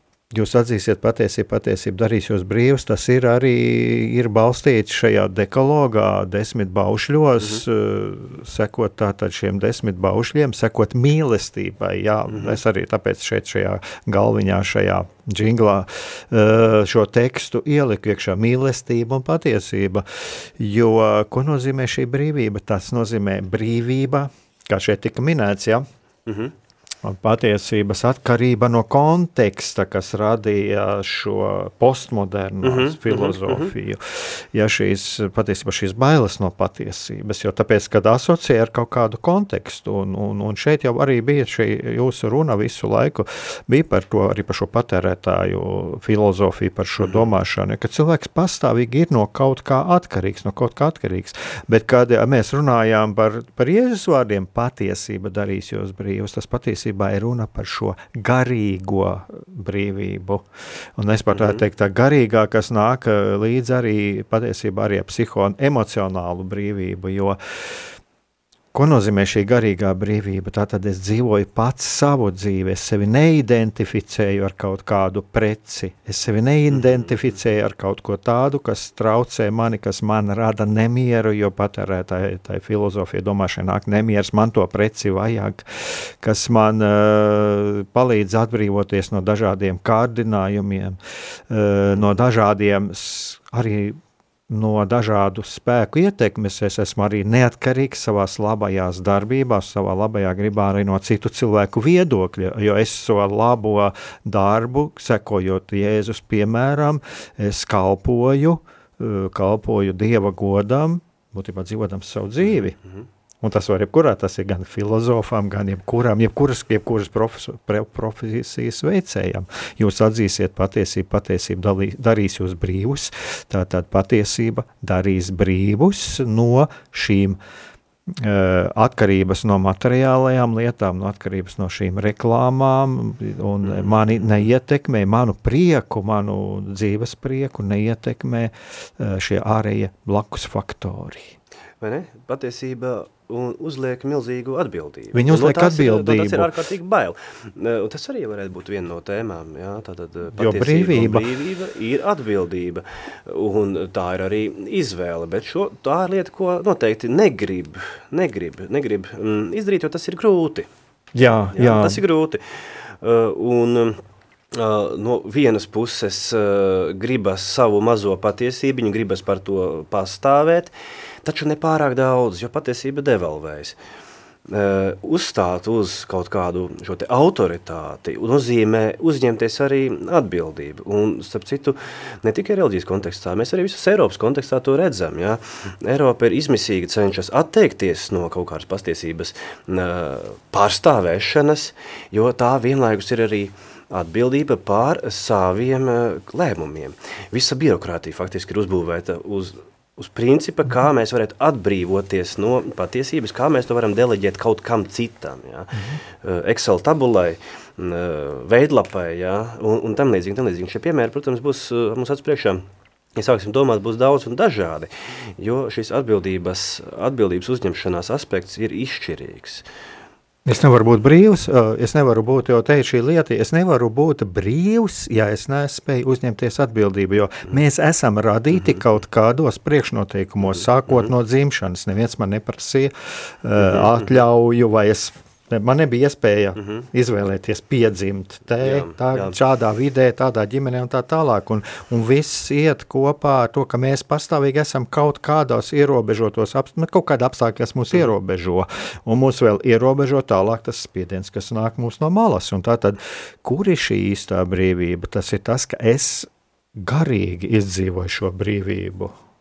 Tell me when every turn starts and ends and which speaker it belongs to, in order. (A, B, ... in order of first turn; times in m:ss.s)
0:00.3-0:25.8 A
0:12.3-0:12.6 B
0:26.3-0:26.5 B
0:27.0-1:07.9 A
0:32.6-0:33.7 B
0:47.0-0:47.3 B
1:01.3-1:01.6 B
1:08.7-1:31.0 A
1:16.7-1:17.0 B
1:31.5-1:52.8 A
1:53.4-2:07.4 A
2:08.1-2:21.4 A
2:13.6-2:14.0 B
2:21.8-2:40.7 B
2:25.1-2:26.5 A
2:30.3-2:31.2 A
2:41.1-2:42.0 A
2:41.5-2:44.0 B
2:44.5-2:50.7 B
2:51.2-2:53.8 B
2:54.5-3:32.6 B
3:33.2-3:39.6 B
3:40.4-4:19.2 A
3:50.5-3:51.1 B
3:53.6-3:54.1 B
3:58.6-3:59.4 B